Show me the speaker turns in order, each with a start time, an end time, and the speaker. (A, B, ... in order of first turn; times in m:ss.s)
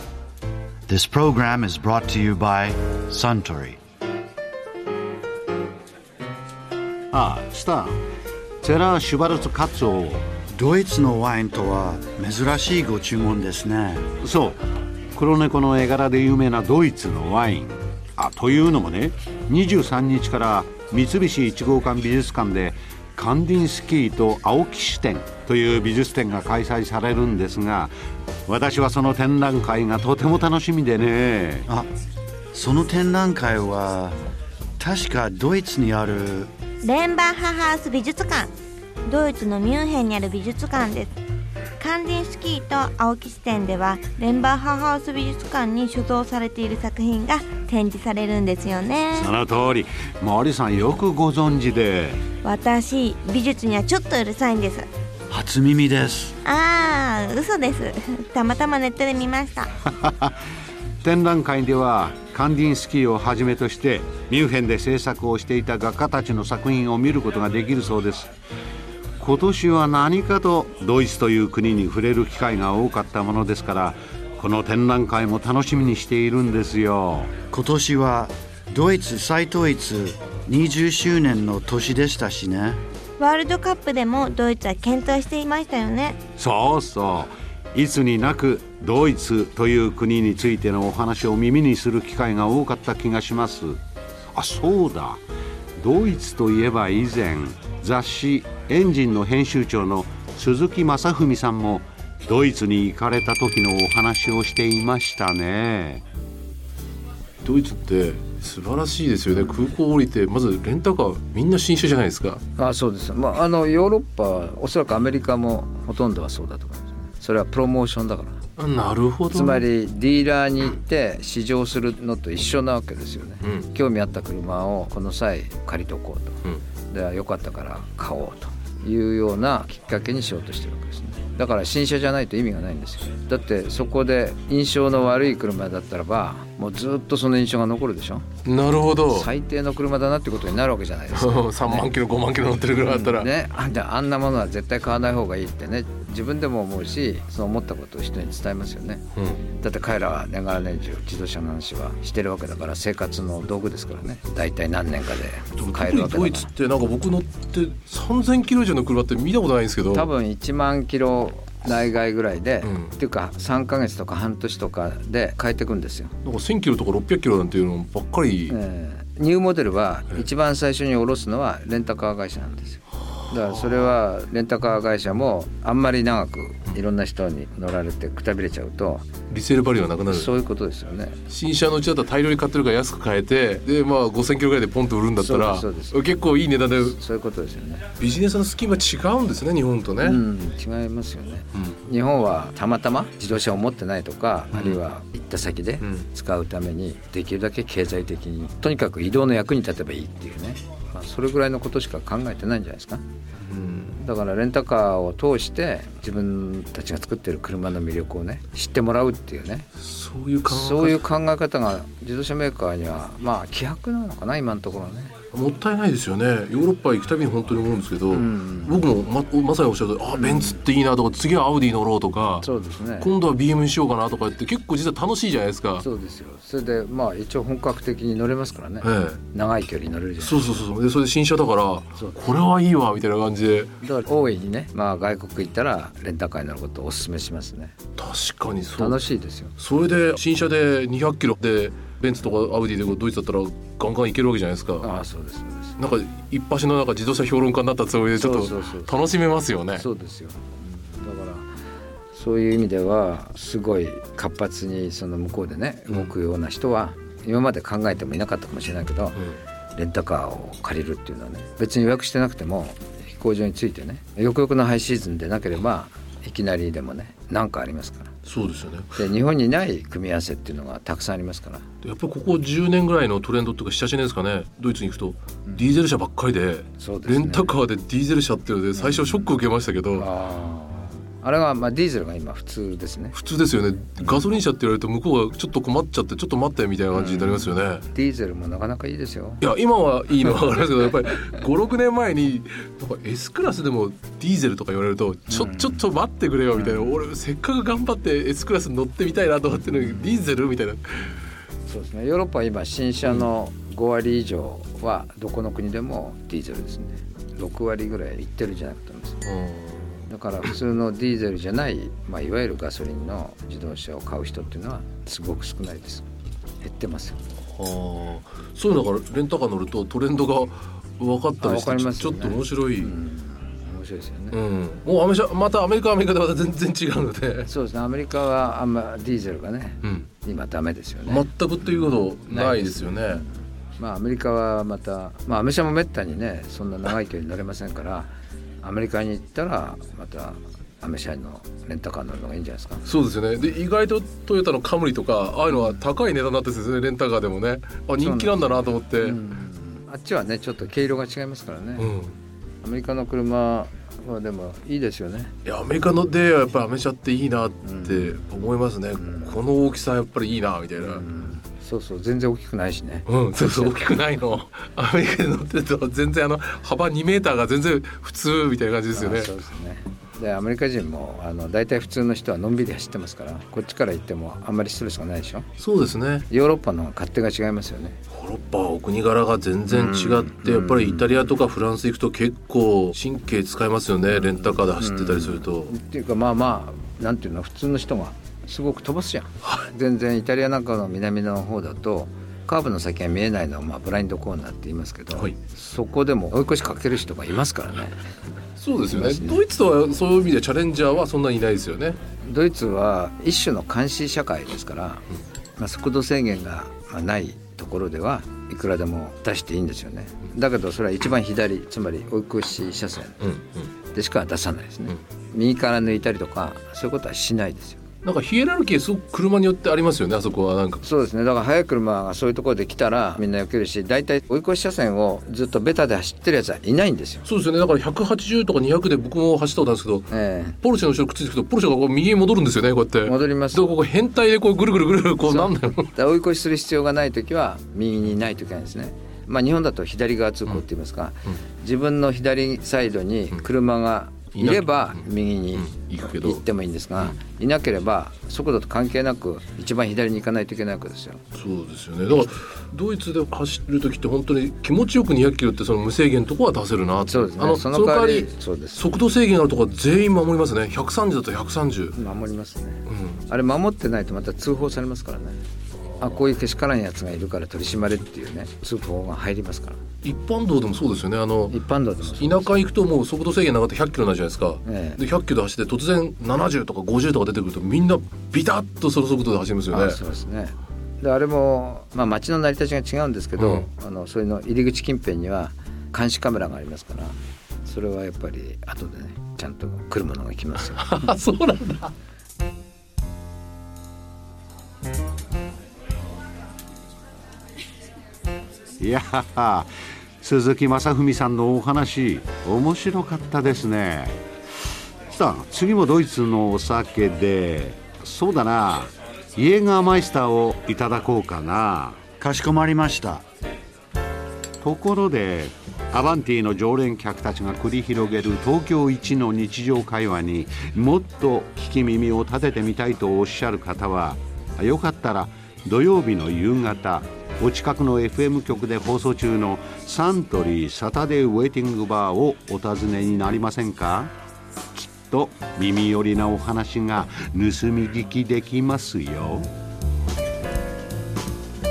0:00.9-0:03.8 A
0:07.1-0:08.0 B
0:08.6-0:10.3 B
0:10.6-0:14.1 A
0:14.2-0:14.6 B
0:15.2-0:27.9 B
0:28.5-0:31.7 B
0:32.5-0:34.2 A
0:34.8-0:36.5 A
0:36.8-0:38.5 C
0:39.1-0:41.1 C
0:41.8-0:49.3 C
0:49.1-0:52.2 B
0:52.4-0:54.9 C
0:55.3-0:56.4 A
0:56.4-0:59.7 C
0:59.9-1:00.3 B
1:01.0-1:08.3 B
1:09.2-1:17.3 B
1:17.5-1:22.8 A
1:23.2-1:26.2 C
1:26.4-1:33.8 B
1:34.3-1:35.2 B
1:35.8-1:46.0 B
1:47.4-1:52.4 D
1:52.6-1:58.4 E
1:58.6-1:59.6 D
1:59.3-2:06.4 E
2:06.9-2:18.3 E
2:18.4-2:19.3 D
2:19.1-2:21.9 E
2:21.1-2:23.3 D
2:22.8-2:36.5 E
2:35.6-2:40.1 D
2:39.9-2:46.2 E
2:42.6-2:42.9 D
2:46.2-2:48.6 D
2:48.5-2:59.1 E
2:53.4-2:54.0 D
2:59.3-3:00.3 D
3:00.1-3:01.2 E
3:01.3-3:07.0 D
3:05.2-3:06.0 E
3:06.8-3:07.9 E
3:08.0-3:10.2 D
3:10.0-3:23.0 E
3:14.5-3:14.8 D
3:23.5-3:24.0 D
3:24.0-3:29.7 E
3:29.8-3:31.0 D
3:30.5-3:35.1 E
3:35.3-3:42.5 D
3:38.1-3:38.8 E
3:40.1-3:40.6 E
3:42.4-3:43.1 E
3:43.0-3:45.8 D
3:45.8-3:50.5 E
3:48.8-3:49.2 D
3:50.2-3:53.7 D
3:53.8-3:57.8 E
3:58.0-3:59.0 D
3:58.8-3:59.6 E
3:59.6-4:04.9 D
4:04.8-4:05.8 E
4:05.8-4:09.8 D
4:08.2-4:08.9 E
4:09.7-4:11.5 E
4:12.1-4:19.2 E
4:19.8-4:28.1 E
4:28.2-4:29.0 D
4:29.0-4:31.6 E
4:31.8-4:40.1 D
4:36.8-4:37.5 E
4:38.7-4:39.3 E
4:40.0-4:43.2 E
4:43.1-4:47.8 D
4:46.9-4:49.4 E
4:49.4-5:01.1 D
4:55.3-4:55.8 E
4:56.5-4:57.0 E
5:01.7-5:09.2 E
5:09.2-5:10.0 D
5:10.1-5:16.1 E
5:16.6-5:17.2 E
5:17.6-5:22.9 D
5:21.4-5:24.4 E
5:24.3-5:27.5 D
5:27.5-5:42.8 E
5:29.8-5:30.1 D
5:31.1-5:33.2 D
5:42.8-5:49.2 D
5:45.5-5:45.8 E
5:48.0-5:51.9 E
5:51.8-5:52.2 D
5:52.6-5:55.3 E
5:55.4-6:01.0 D
5:57.6-5:58.3 E
5:59.0-5:59.4 E
6:00.8-6:03.9 E
6:03.1-6:09.3 D
6:09.0-6:15.5 E
6:15.6-6:16.2 D
6:16.3-6:18.0 E
6:18.1-6:25.7 D
6:19.7-6:21.2 E
6:24.1-6:38.0 E
6:38.6-6:42.0 D
6:38.9-6:39.4 E
6:42.2-6:45.1 E
6:45.6-6:53.2 E
6:53.2-6:53.7 D
6:53.9-6:57.8 E
6:58.0-7:00.8 D
7:00.8-7:07.3 E
7:07.3-7:10.1 D
7:10.1-7:10.6 E
7:10.6-7:15.9 D
7:13.0-7:13.8 E
7:15.3-7:31.2 E
7:24.3-7:25.0 D
7:25.6-7:26.4 D
7:31.4-7:42.0 D
7:37.0-7:38.9 E
7:41.9-7:45.4 E
7:42.9-7:43.2 D
7:46.0-7:49.8 E
7:50.0-8:00.0 D
7:51.5-7:52.6 E
7:54.6-7:55.0 E
7:59.7-8:11.1 E
8:03.4-8:03.7 D
8:10.7-8:11.9 D
8:18.8-8:19.7 B
8:20.2-8:24.2 B
8:25.1-8:32.0 B
8:32.2-8:33.2 A
8:34.6-8:54.1 B
8:54.7-8:59.5 B